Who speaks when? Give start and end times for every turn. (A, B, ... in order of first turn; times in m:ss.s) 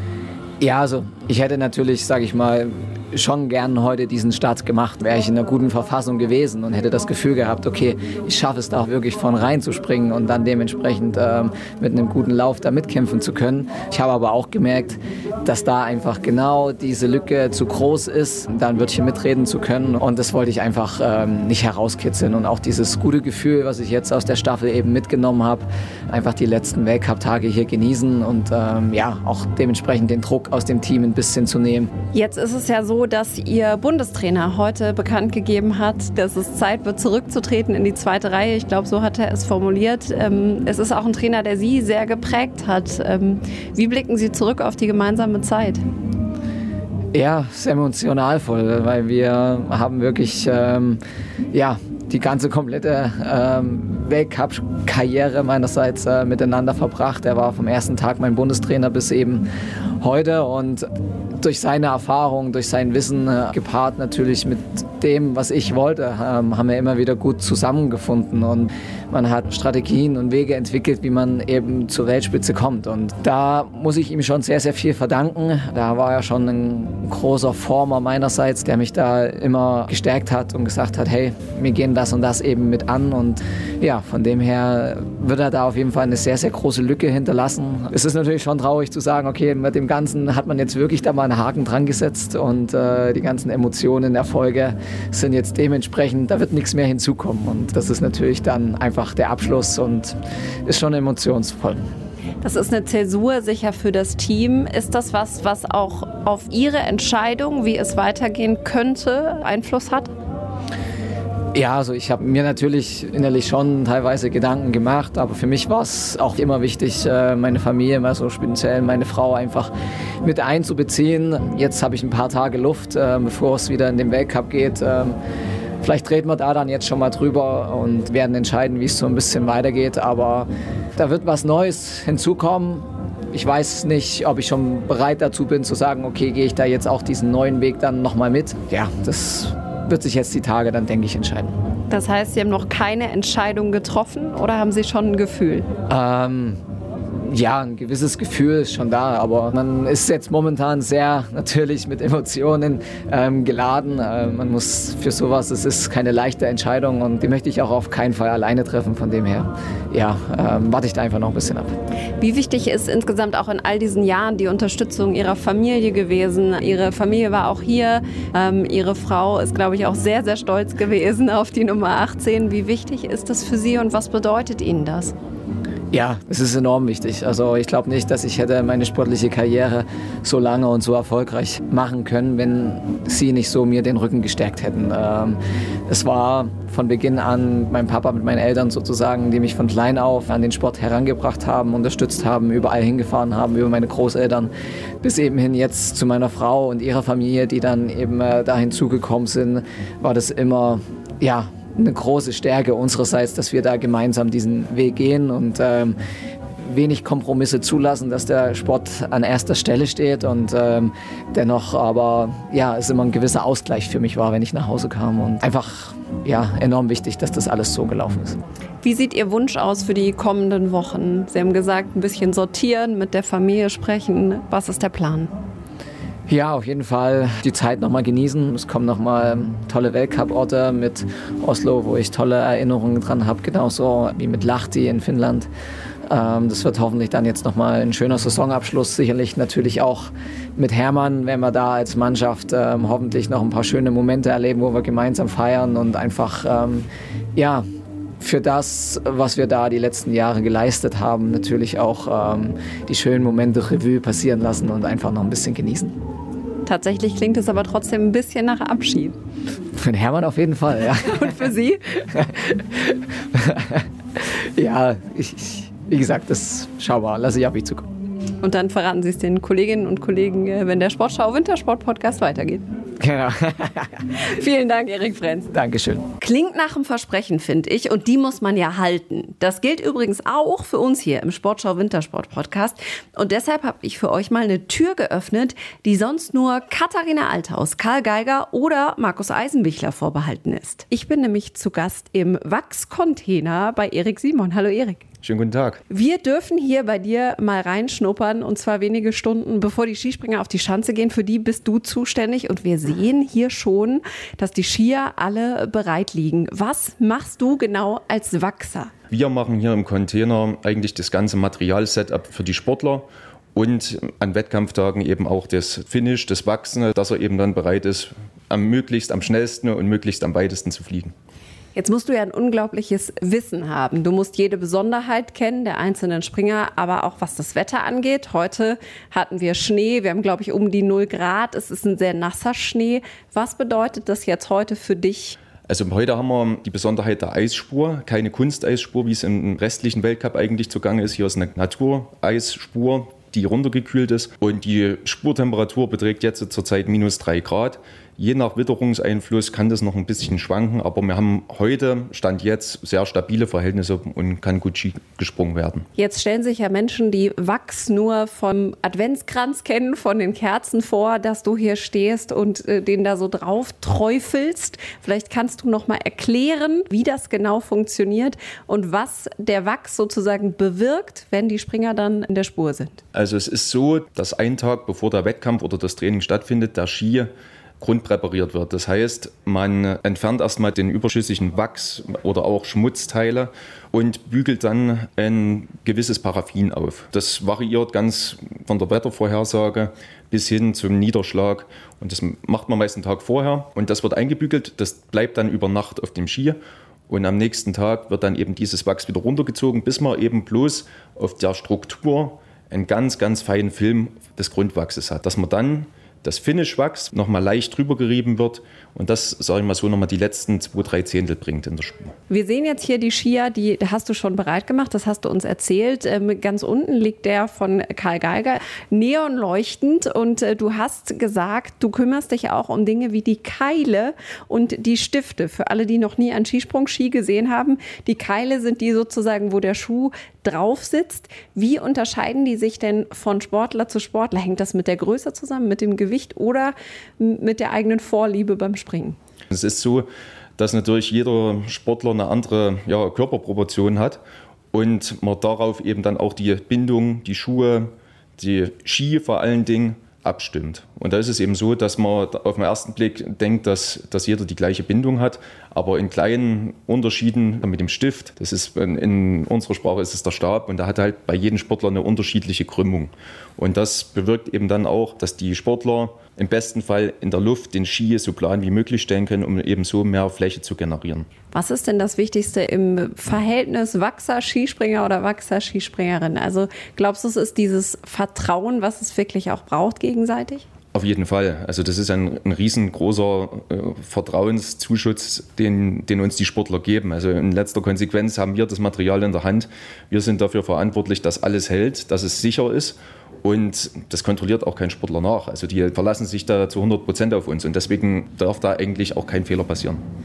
0:00.6-0:31.9 A
0:32.1-0:45.8 B
0:47.1-0:51.0 A
0:51.5-0:59.5 A
1:00.0-1:00.9 A
1:01.4-1:41.9 A
1:42.4-1:50.1 B
1:51.5-1:59.7 A
2:00.2-2:05.2 A
2:05.8-2:21.5 A
2:21.9-2:25.7 B
2:25.9-2:26.6 A
2:27.2-2:41.7 A
2:42.2-2:55.1 B
2:55.9-3:14.5 A
3:15.0-3:26.0 A
3:26.6-3:38.4 A
3:38.8-3:45.3 B
3:46.3-3:55.5 A
3:56.1-4:07.6 A
4:08.2-4:15.9 A
4:16.6-4:19.2 B
4:19.8-4:21.3 A
4:21.0-4:21.8 B
4:22.1-4:23.8 A
4:24.4-4:27.9 A
4:28.4-4:32.6 B
4:33.0-4:34.0 A
4:34.2-4:35.5 B
4:35.5-4:36.1 A
4:36.2-4:55.0 B
4:55.2-4:55.8 C
4:55.9-5:08.9 B
5:09.1-5:21.1 C
5:21.8-5:35.4 B
5:35.7-5:55.9 C
5:56.0-6:13.0 B
6:13.1-6:36.6 C
6:37.1-6:52.1 C
6:52.3-7:19.2 B
7:19.5-7:20.1 C
7:20.6-7:24.2 C
7:24.7-7:51.3 C
7:51.5-8:00.6 B
8:00.9-8:20.0 C